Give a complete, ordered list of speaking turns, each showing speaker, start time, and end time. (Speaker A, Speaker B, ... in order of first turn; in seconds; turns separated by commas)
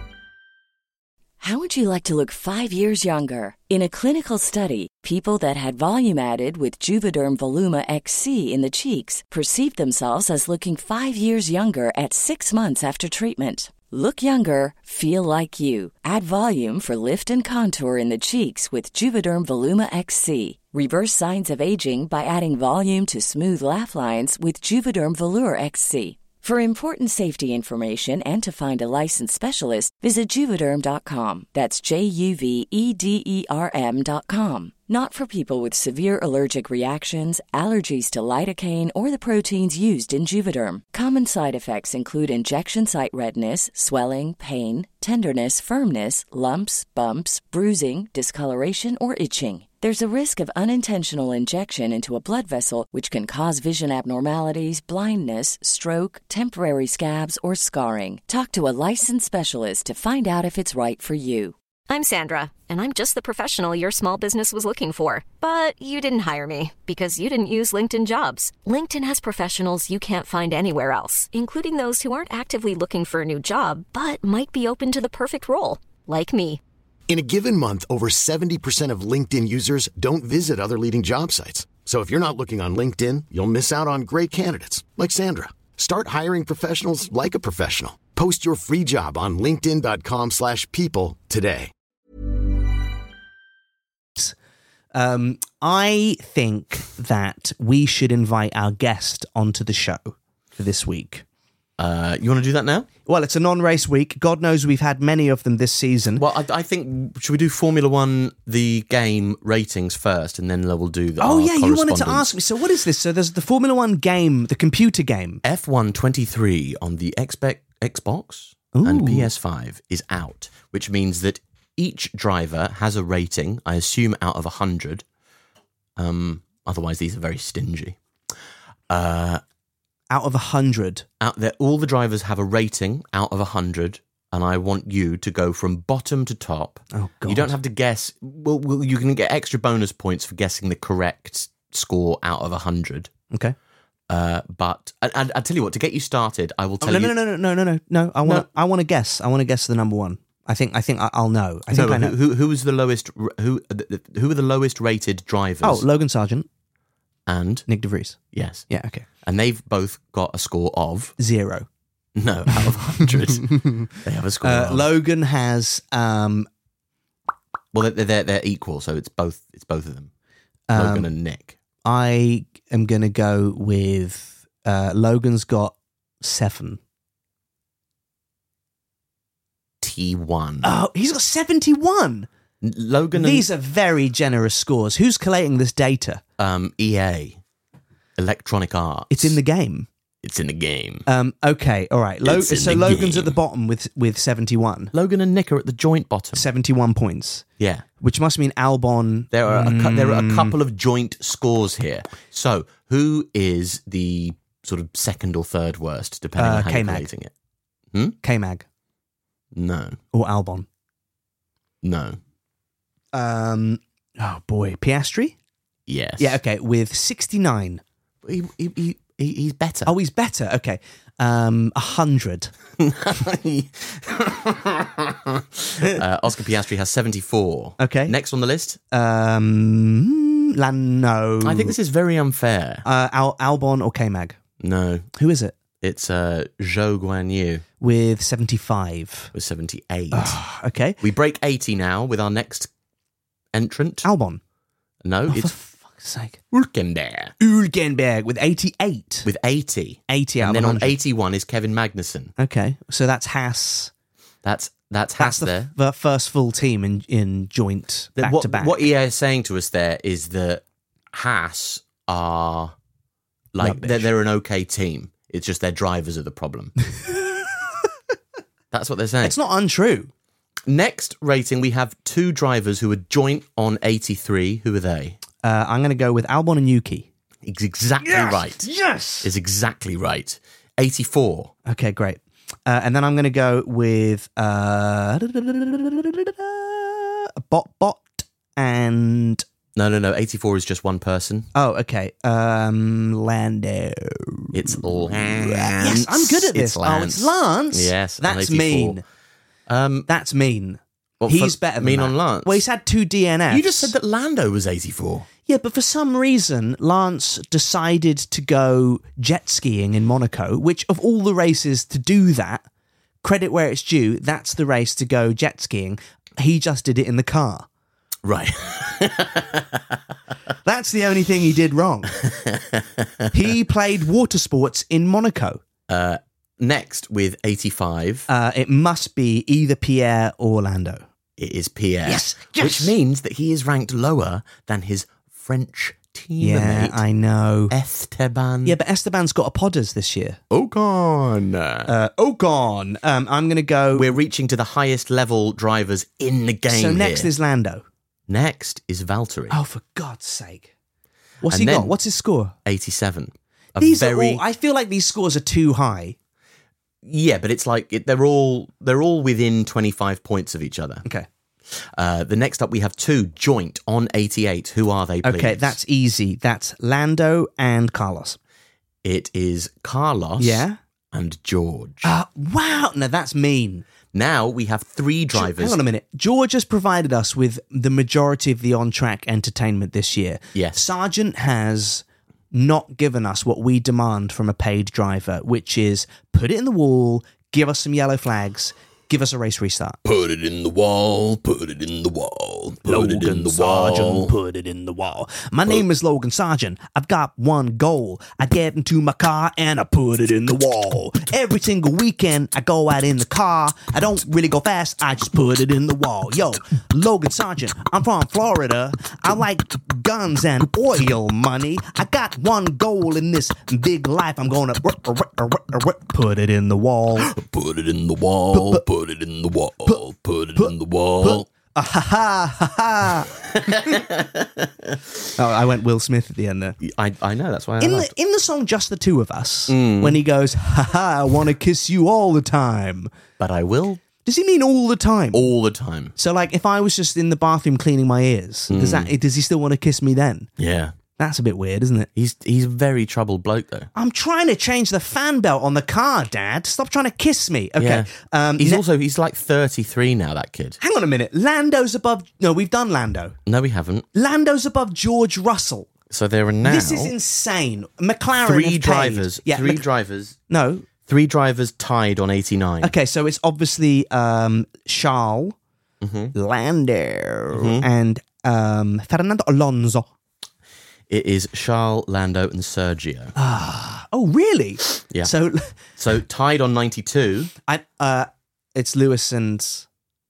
Speaker A: 1.4-61.5, Speaker B: 61.9-76.6, Speaker C: 77.1-91.7, Speaker D: 94.9-101.2, Speaker E: 101.8-102.9, Speaker D: 103.1-106.2, Speaker E: 106.2-112.3, Speaker D: 111.2-115.4, Speaker E: 115.4-125.0, Speaker D: 118.7-119.3, Speaker E: 126.0-128.0, Speaker E: 128.9-129.4, Speaker D: 130.1-131.1, Speaker E: 131.2-143.1, Speaker D: 136.9-137.5, Speaker D: 143.3-143.6, Speaker E: 144.1-147.1, Speaker D: 146.8-152.2, Speaker E: 151.7-155.8, Speaker D: 155.6-156.5, Speaker E: 157.3-157.7, Speaker D: 157.7-159.1, Speaker E: 158.3-158.6, Speaker E: 159.2-161.1, Speaker D: 161.2-161.7, Speaker E: 162.2-164.9, Speaker D: 164.4-166.5, Speaker E: 167.7-170.1, Speaker D: 170.7-171.1, Speaker E: 170.7-171.6, Speaker D: 171.8-176.8, Speaker E: 179.8-180.7, Speaker D: 180.6-182.3, Speaker E: 182.6-183.5, Speaker D: 183.1-186.2, Speaker E: 186.4-187.4, Speaker E: 188.2-189.4, Speaker D: 189.1-189.9, Speaker E: 190.2-191.1, Speaker D: 191.1-194.9, Speaker E: 192.2-193.3, Speaker E: 194.9-196.4, Speaker D: 196.3-197.4, Speaker E: 197.6-197.8, Speaker D: 198.0-200.6, Speaker E: 199.3-207.3, Speaker D: 206.4-207.1, Speaker D: 208.2-208.7, Speaker E: 209.5-210.0, Speaker D: 210.1-210.7, Speaker E: 211.8-212.2, Speaker D: 213.1-215.4, Speaker E: 215.9-216.4, Speaker D: 216.2-217.8, Speaker E: 218.2-219.9, Speaker D: 219.9-222.5, Speaker E: 222.8-228.8, Speaker D: 227.8-228.1, Speaker D: 228.9-231.8, Speaker E: 231.4-232.8, Speaker D: 232.8-234.4, Speaker E: 234.6-235.1, Speaker D: 235.2-235.6, Speaker E: 235.8-237.6, Speaker D: 237.8-239.3, Speaker E: 239.3-240.4, Speaker D: 240.1-241.0, Speaker E: 241.0-242.7, Speaker E: 243.5-244.1, Speaker D: 244.0-244.4, Speaker E: 245.0-245.5, Speaker D: 245.3-246.4, Speaker E: 246.5-247.3, Speaker D: 247.4-249.3, Speaker E: 249.2-252.3, Speaker D: 250.1-251.0, Speaker D: 252.4-253.9, Speaker E: 254.4-255.7, Speaker D: 255.2-258.8, Speaker E: 258.2-262.7, Speaker E: 263.5-266.7, Speaker D: 263.6-264.1, Speaker E: 268.7-269.4, Speaker D: 269.2-270.1, Speaker E: 270.7-275.2, Speaker D: 275.4-277.1, Speaker E: 277.4-278.7, Speaker D: 278.0-279.3, Speaker E: 279.2-281.5, Speaker D: 281.6-289.4, Speaker E: 289.8-291.5, Speaker D: 291.5-299.0, Speaker E: 294.5-299.0, Speaker E: 299.7-300.1, Speaker D: 300.1-303.9, Speaker E: 301.2-302.6, Speaker E: 303.5-305.3, Speaker D: 305.5-312.6, Speaker D: 313.2-317.7, Speaker E: 318.2-320.0, Speaker D: 320.6-322.2, Speaker E: 322.2-323.3, Speaker D: 323.3-325.6, Speaker E: 325.9-328.3, Speaker D: 328.3-331.0, Speaker E: 331.4-337.0, Speaker D: 332.0-332.9, Speaker D: 336.4-337.7, Speaker E: 337.7-338.8, Speaker D: 338.6-340.4, Speaker E: 340.5-341.9, Speaker D: 341.9-344.1, Speaker E: 343.9-347.3, Speaker D: 346.7-347.8, Speaker E: 348.3-349.6, Speaker D: 349.5-350.7, Speaker D: 351.4-352.5, Speaker E: 351.5-351.9, Speaker E: 352.6-354.4, Speaker D: 353.8-356.1, Speaker E: 357.0-361.0, Speaker E: 361.7-365.8, Speaker D: 365.2-368.4, Speaker E: 369.0-372.1, Speaker D: 370.4-370.8, Speaker D: 372.0-373.9, Speaker E: 374.1-375.8, Speaker D: 375.3-390.0, Speaker E: 380.5-380.8, Speaker E: 390.0-394.3, Speaker D: 392.9-417.3, Speaker E: 417.1-421.5, Speaker D: 418.5-418.8, Speaker D: 420.6-423.8, Speaker E: 423.4-425.1, Speaker D: 425.4-426.8, Speaker E: 426.8-428.1, Speaker D: 427.8-433.1, Speaker E: 429.7-430.2, Speaker E: 433.4-434.0, Speaker D: 434.2-435.5, Speaker E: 435.3-436.1, Speaker D: 436.2-440.5, Speaker E: 438.7-439.1, Speaker E: 440.6-440.9, Speaker D: 441.2-442.1, Speaker E: 442.1-443.9, Speaker D: 443.9-448.8, Speaker E: 447.8-450.8, Speaker D: 450.8-453.4, Speaker E: 453.5-454.1, Speaker D: 454.1-455.9, Speaker E: 456.1-457.1, Speaker D: 456.6-459.9, Speaker E: 458.4-460.4, Speaker D: 460.5-460.9, Speaker E: 461.0-462.9, Speaker D: 462.8-465.6, Speaker E: 466.0-466.3, Speaker D: 466.3-470.1, Speaker E: 467.5-467.9, Speaker E: 471.1-473.4, Speaker D: 473.4-475.8, Speaker E: 476.0-477.5, Speaker D: 477.7-479.9